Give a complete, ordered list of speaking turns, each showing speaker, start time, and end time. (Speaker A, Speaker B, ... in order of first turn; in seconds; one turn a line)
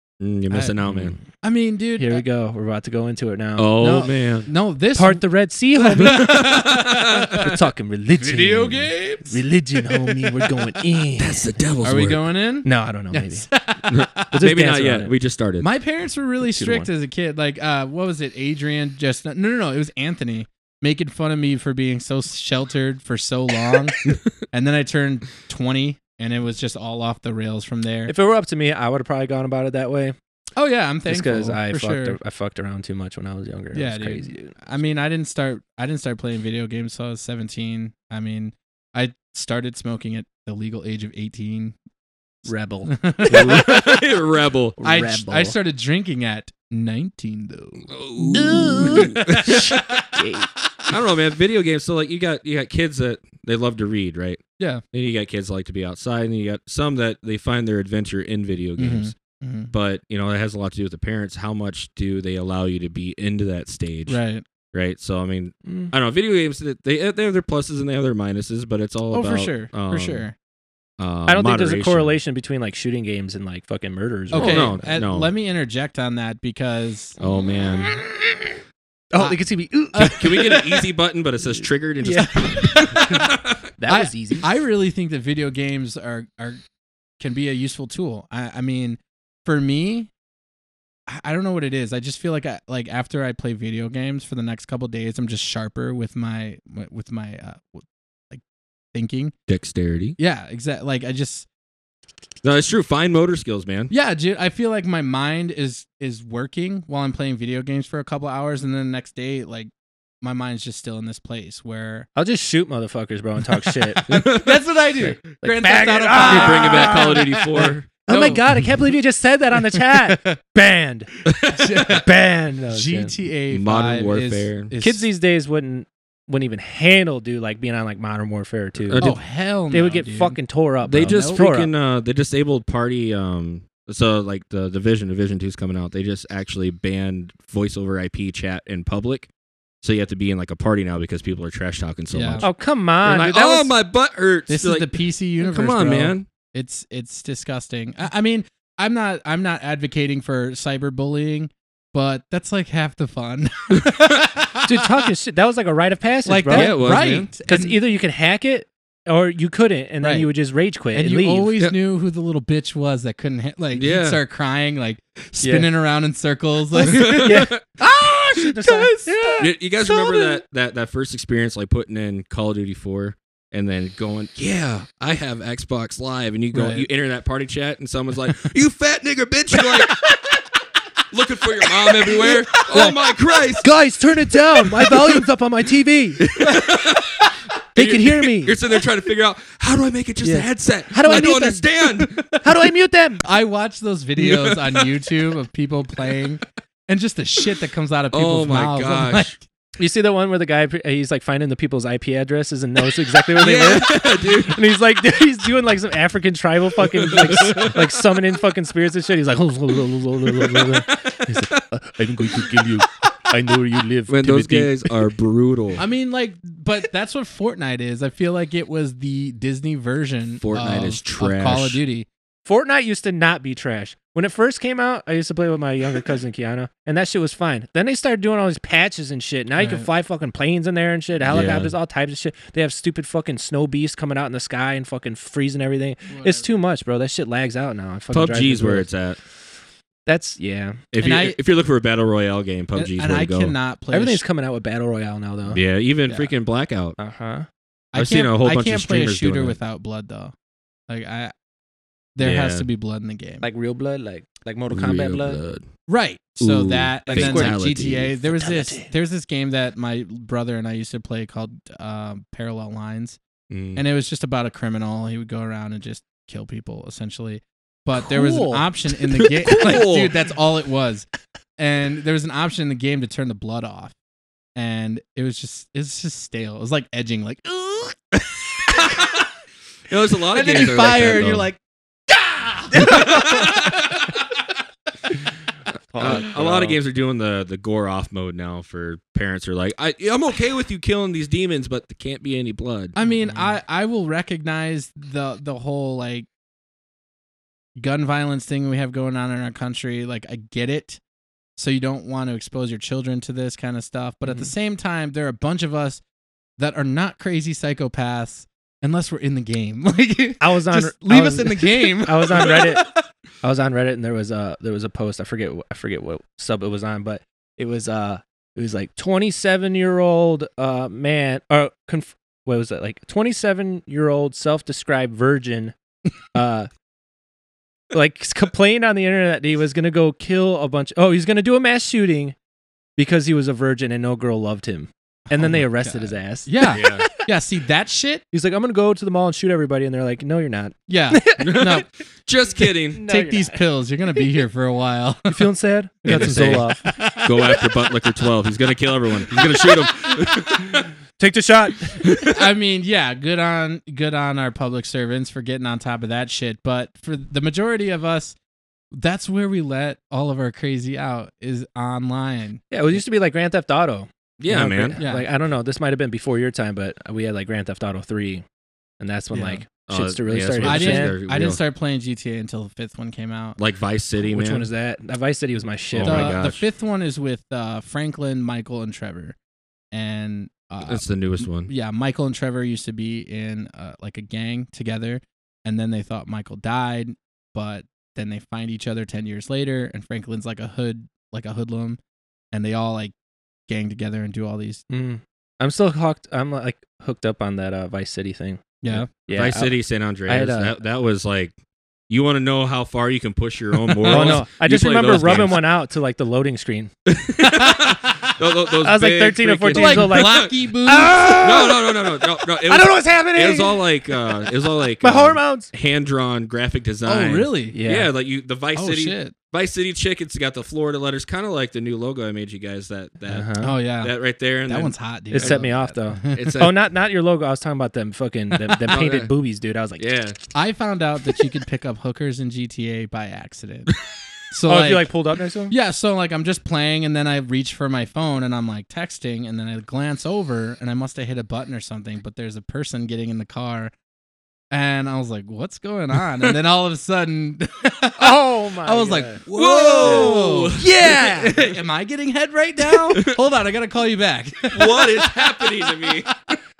Speaker A: 0.2-1.2
Speaker B: 0.5-2.2
Speaker C: 0.8-1.1
Speaker C: 2.0-4.1
Speaker A: 3.6-4.5
Speaker B: 3.8-7.5
Speaker C: 4.9-6.7
Speaker A: 6.0-7.5
Speaker C: 7.3-11.6
Speaker B: 8.2-10.4
Speaker A: 11.2-12.3
Speaker B: 11.8-14.4
Speaker C: 12.6-13.5
Speaker A: 13.9-15.7
Speaker C: 14.3-15.1
Speaker B: 15.6-28.1
Speaker C: 16.4-16.9
Speaker C: 28.1-30.1
Speaker B: 30.6-32.2
Speaker C: 31.1-34.5
Speaker B: 33.7-41.8
Speaker C: 42.5-43.7
Speaker B: 42.9-43.9
Speaker A: 43.3-44.8
Speaker C: 44.8-45.5
Speaker B: 44.8-50.0
Speaker A: 47.9-50.1
Speaker C: 48.3-50.5
Speaker A: 50.9-54.4
Speaker A: 54.9-59.1
Speaker B: 58.8-59.7
Speaker A: 59.7-64.2
Speaker B: 64.1-64.4
Speaker A: 64.7-70.3
Speaker C: 65.6-65.9
Speaker B: 69.1-70.3
Speaker A: 71.0-72.1
Speaker C: 71.3-74.8
Speaker A: 74.3-75.3
Speaker B: 74.3-77.2
Speaker A: 77.2-77.9
Speaker C: 77.2-78.6
Speaker C: 79.1-80.5
Speaker B: 79.2-80.8
Speaker A: 80.1-83.6
Speaker C: 82.0-82.3
Speaker B: 82.3-83.3
Speaker C: 82.9-83.2
Speaker C: 83.8-84.5
Speaker B: 83.9-86.6
Speaker B: 87.2-90.1
Speaker B: 91.1-98.4
Speaker B: 98.9-99.3
Speaker A: 99.5-100.2
Speaker B: 100.2-101.5
Speaker A: 102.4-103.9
Speaker B: 103.9-109.7
Speaker B: 110.2-112.1
Speaker C: 112.1-114.0
Speaker B: 113.6-118.7
Speaker A: 114.1-114.6
Speaker C: 115.0-121.1
Speaker A: 116.1-117.9
Speaker B: 119.7-120.4
Speaker A: 121.3-121.6
Speaker B: 121.3-122.1
Speaker C: 121.9-123.1
Speaker B: 122.7-125.0
Speaker A: 123.5-124.7
Speaker C: 124.8-129.1
Speaker A: 128.8-129.2
Speaker B: 128.9-130.4
Speaker C: 129.7-131.7
Speaker A: 130.8-139.3
Speaker B: 131.0-131.4
Speaker A: 139.8-142.5
Speaker B: 142.1-142.4
Speaker C: 142.4-143.7
Speaker A: 143.0-146.2
Speaker B: 144.5-154.7
Speaker A: 153.8-154.2
Speaker C: 154.6-161.5
Speaker B: 156.2-157.8
Speaker A: 156.5-157.3
Speaker B: 160.0-160.3
Speaker B: 160.9-167.5
Speaker A: 163.7-164.2
Speaker C: 165.4-165.7
Speaker C: 166.7-170.3
Speaker A: 166.8-167.6
Speaker B: 168.3-169.4
Speaker A: 169.4-180.0
Speaker B: 176.5-176.8
Speaker A: 181.1-183.7
Speaker C: 181.9-183.0
Speaker C: 183.6-186.2
Speaker A: 184.6-185.1
Speaker A: 186.2-192.3
Speaker B: 186.4-187.3
Speaker C: 187.7-188.6
Speaker C: 190.2-191.7
Speaker B: 192.1-192.4
Speaker C: 192.4-193.2
Speaker B: 193.2-199.4
Speaker A: 194.2-195.1
Speaker A: 198.1-199.3
Speaker C: 199.8-214.9
Speaker A: 203.3-204.6
Speaker A: 206.9-207.9
Speaker A: 210.3-211.6
Speaker A: 212.2-212.7
Speaker A: 214.1-215.8
Speaker B: 215.8-222.1
Speaker A: 220.4-221.8
Speaker C: 222.4-238.9
Speaker B: 229.6-229.9
Speaker A: 231.2-231.7
Speaker B: 236.1-236.5
Speaker A: 238.1-239.2
Speaker C: 240.1-240.8
Speaker A: 240.9-243.5
Speaker B: 241.0-241.4
Speaker B: 242.7-244.2
Speaker C: 243.9-246.3
Speaker A: 245.5-246.9
Speaker C: 247.0-247.5
Speaker B: 247.9-250.3
Speaker A: 247.9-249.6
Speaker B: 250.9-251.3
Speaker B: 252.2-253.4
Speaker A: 252.2-252.7
Speaker C: 253.4-255.4
Speaker A: 254.7-255.6
Speaker B: 255.9-263.2
Speaker A: 256.4-258.1
Speaker C: 257.1-257.6
Speaker C: 258.2-258.9
Speaker A: 263.5-263.8
Speaker B: 263.7-271.1
Speaker C: 267.9-269.8
Speaker A: 269.4-270.1
Speaker B: 271.6-273.9
Speaker B: 274.6-278.0
Speaker B: 278.5-279.2
Speaker A: 279.9-281.5
Speaker B: 280.3-281.6
Speaker B: 282.1-283.8
Speaker C: 282.7-283.4
Speaker A: 282.8-284.2
Speaker C: 285.9-286.8
Speaker A: 285.9-292.9
Speaker B: 292.9-296.3
Speaker C: 293.0-293.6
Speaker B: 297.8-301.0
Speaker B: 301.6-306.0
Speaker B: 306.6-313.0
Speaker C: 310.4-312.8
Speaker C: 313.4-325.7
Speaker C: 326.3-326.7
Speaker C: 327.9-332.4
Speaker C: 333.0-337.1
Speaker B: 335.3-338.2
Speaker A: 336.7-337.1
Speaker C: 338.3-341.7
Speaker B: 340.9-341.9
Speaker A: 341.4-343.0
Speaker C: 342.9-343.6
Speaker B: 343.0-345.4
Speaker C: 345.3-346.8
Speaker B: 346.0-347.5
Speaker A: 346.0-350.9
Speaker B: 349.3-350.1
Speaker C: 351.2-352.0
Speaker A: 352.0-352.4
Speaker B: 352.2-358.4
Speaker B: 358.9-363.0
Speaker C: 362.7-368.4
Speaker A: 364.4-365.0
Speaker B: 365.0-365.3
Speaker C: 369.0-371.1
Speaker B: 369.3-369.6
Speaker A: 369.9-371.6
Speaker B: 370.6-373.6
Speaker A: 373.6-374.7
Speaker C: 374.2-376.4
Speaker A: 375.9-376.6
Speaker B: 376.0-379.4
Speaker B: 379.9-392.0
Speaker A: 380.9-381.7
Speaker B: 392.5-393.1
Speaker B: 393.7-394.8
Speaker C: 394.9-399.7
Speaker B: 398.8-399.1
Speaker A: 399.3-401.5
Speaker C: 400.2-400.8
Speaker A: 402.1-405.6
Speaker B: 403.9-404.4
Speaker C: 404.1-406.9
Speaker A: 407.1-410.6
Speaker B: 407.4-408.3
Speaker C: 408.8-414.3
Speaker B: 409.7-411.7
Speaker A: 411.4-425.7
Speaker C: 415.0-415.7
Speaker B: 417.0-417.8
Speaker C: 417.7-418.1
Speaker B: 418.7-419.3
Speaker C: 423.3-423.7
Speaker B: 423.6-424.1
Speaker B: 424.6-426.5
Speaker C: 425.3-430.1
Speaker A: 426.3-426.7
Speaker A: 428.7-429.3
Speaker A: 430.0-430.4
Speaker B: 430.5-433.9
Speaker B: 434.5-435.1
Speaker C: 434.7-435.7
Speaker B: 435.7-443.9
Speaker B: 444.7-456.0
Speaker C: 448.2-449.4
Speaker A: 449.5-451.2
Speaker C: 450.0-451.6
Speaker A: 454.7-456.3